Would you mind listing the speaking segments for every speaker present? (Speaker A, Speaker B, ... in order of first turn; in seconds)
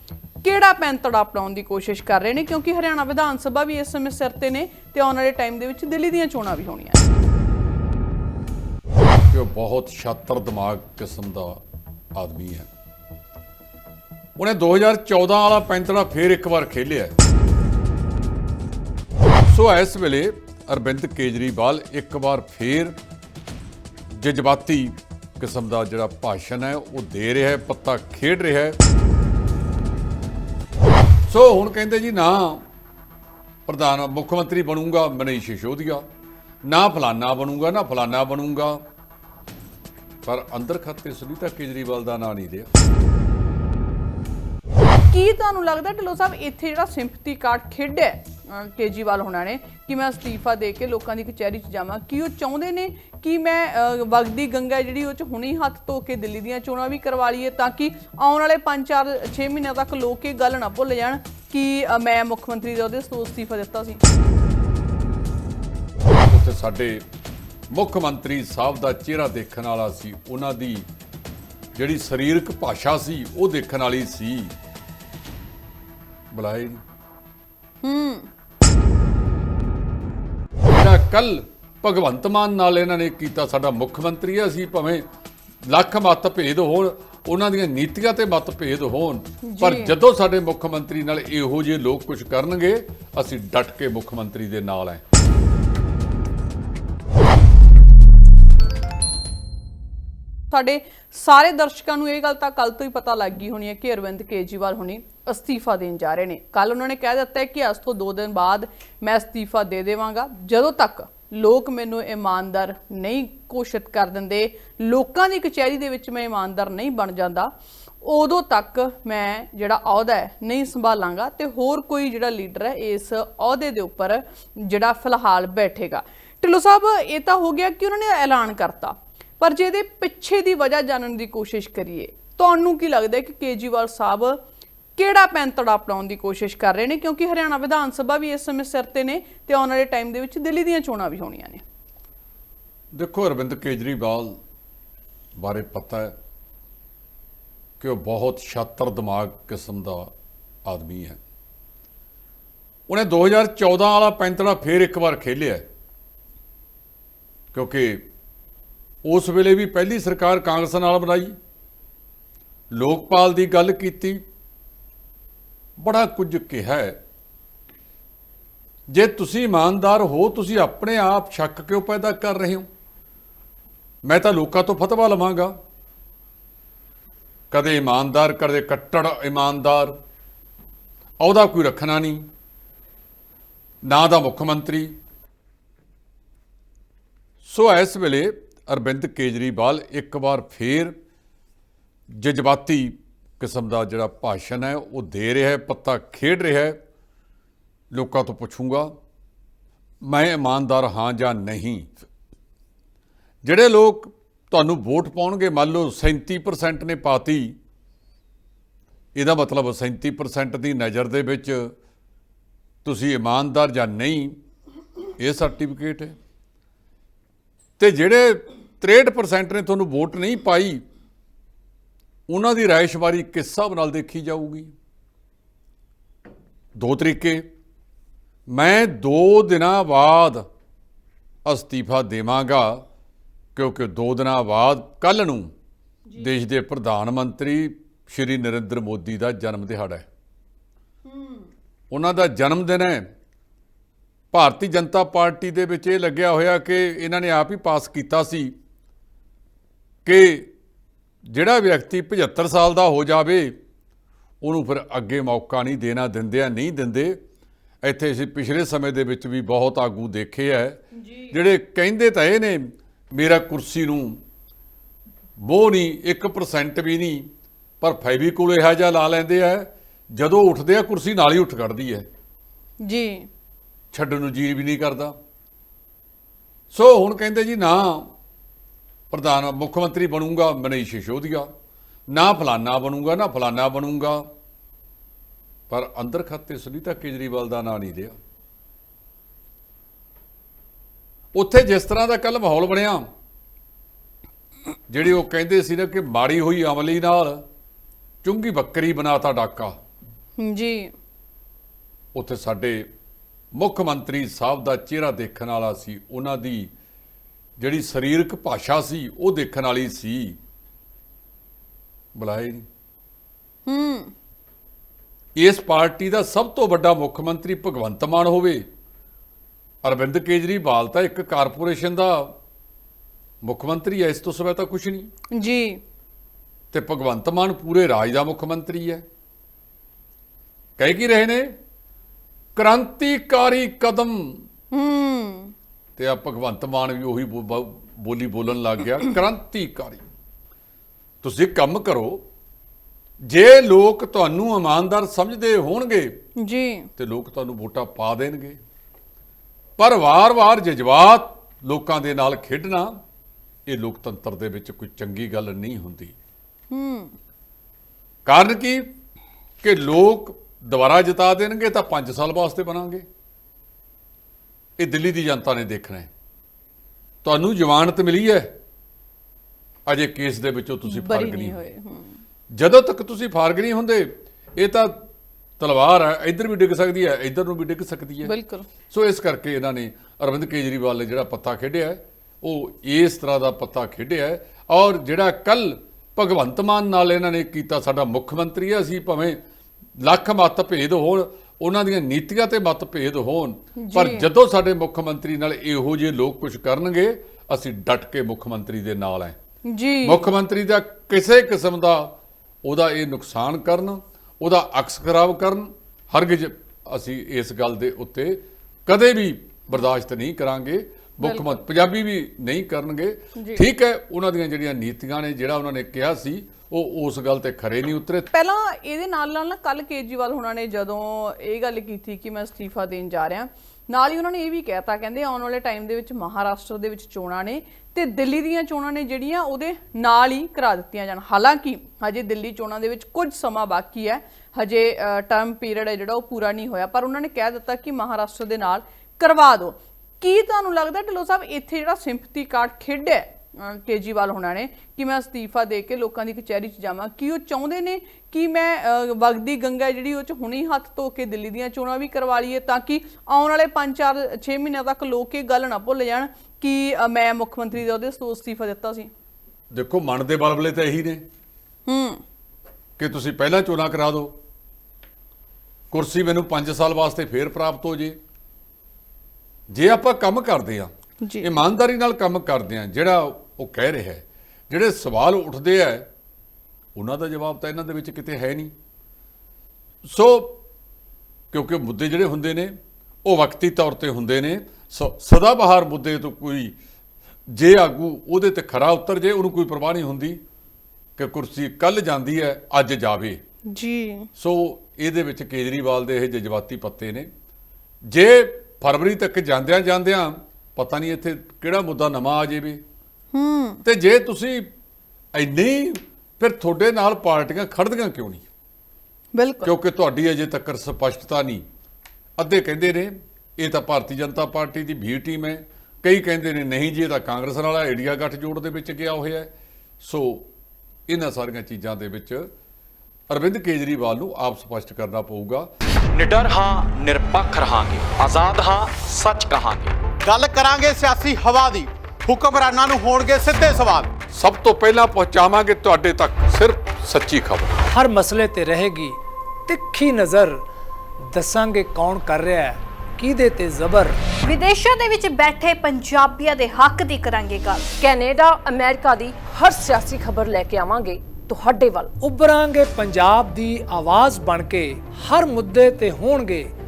Speaker A: 0.4-7.0, 45.1-64.0, 77.8-78.3, 89.5-89.9, 100.5-117.5, 118.0-134.4, 134.9-141.6, 241.1-241.5, 261.0-261.3, 272.8-273.3, 300.4-300.9, 313.7-314.1, 325.3-325.8, 334.7-335.5, 346.4-346.9, 356.7-357.1, 370.9-372.1, 378.2-378.6, 393.8-394.2, 399.7-400.2, 411.2-411.6, 413.4-413.6, 418.3-459.1, 461.9-462.2, 471.2-471.5, 493.7-494.3, 503.3-503.8, 509.3-509.7
Speaker B: 9.3-11.6, 12.1-12.7, 14.4-17.1, 19.5-22.9, 24.1-28.8, 31.3-32.6, 33.7-36.0, 36.7-38.8, 40.2-42.7, 66.3-67.0, 67.7-70.8, 71.7-74.5, 76.3-76.8, 80.7-85.0, 85.7-95.0, 142.9-144.4, 145.4-146.1, 147.8-150.1, 150.6-151.2, 152.9-155.7, 157.5-158.0, 159.0-161.3, 162.7-164.2, 165.8-167.0, 168.9-172.7, 174.0-175.5, 177.5-179.9, 181.2-182.2, 183.8-184.9, 187.4-190.9, 192.1-196.8, 197.9-198.9, 200.0-201.9, 203.4-207.6, 209.1-211.7, 212.8-214.4, 215.2-216.1, 217.8-220.8, 222.3-224.7, 226.8-227.4, 228.5-230.4, 231.4-232.8, 233.5-235.5, 236.2-240.1, 241.9-243.0, 244.3-248.5, 250.0-250.5, 251.2-253.6, 254.4-257.2, 257.8-264.2, 265.4-267.2, 267.8-272.0, 273.9-275.1, 276.7-278.1, 279.1-281.5, 282.1-284.2, 285.7-288.1, 291.3-293.1, 294.9-297.4, 298.2-299.8, 302.1-302.9, 303.5-306.7, 307.6-310.4, 312.1-312.6, 315.4-318.6, 319.8-322.3, 323.4-325.1, 326.7-329.0, 330.8-331.5, 332.5-334.4, 336.0-340.0, 341.2-342.2, 343.2-346.1, 347.0-348.6, 349.8-352.9, 353.6-356.1, 358.2-358.9, 359.6-363.0, 364.8-366.1, 367.2-368.5, 369.9-371.6, 372.5-374.9, 375.6-378.3, 378.9-389.4, 390.0-399.4, 400.0-418.3, 459.7-461.2, 463.0-464.3, 465.9-468.2, 469.7-470.9, 471.4-476.1, 476.9-478.7, 480.0-480.6, 481.5-486.8, 487.5-490.4, 491.2-493.4, 494.4-497.3, 498.1-502.8, 503.8-504.7, 505.3-508.4, 509.6-511.6, 512.4-520.5, 521.1-522.5, 523.3-525.7, 534.3-537.8
Speaker C: 526.1-529.9
Speaker D: 530.2-534.1
Speaker E: 537.9-540.6, 541.3-544.2, 552.2-556.7
Speaker F: 544.5-547.9
Speaker G: 548.0-552.1